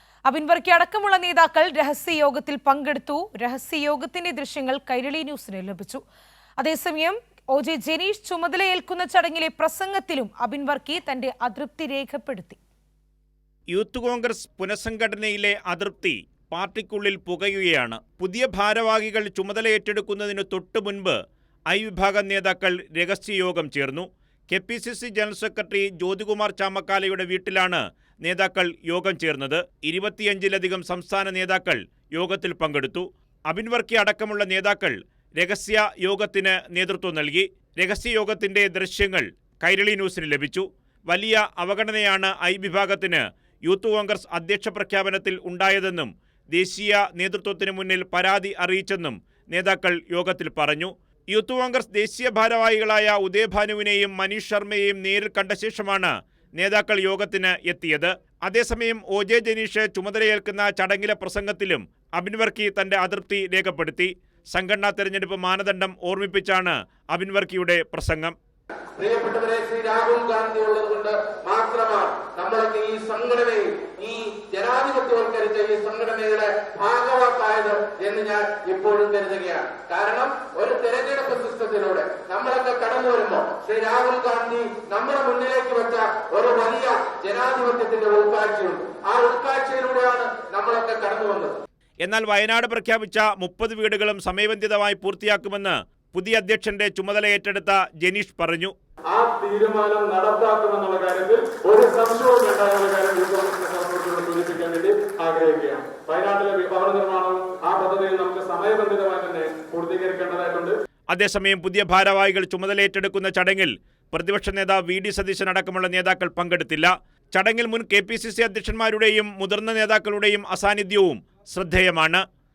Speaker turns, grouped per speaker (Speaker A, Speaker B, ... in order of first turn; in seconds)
Speaker A: 0.3-6.0, 6.6-12.6
Speaker B: 13.7-21.2, 21.7-68.3, 92.0-98.7, 111.1-122.2
Speaker C: 69.0-91.6
Speaker D: 99.1-110.7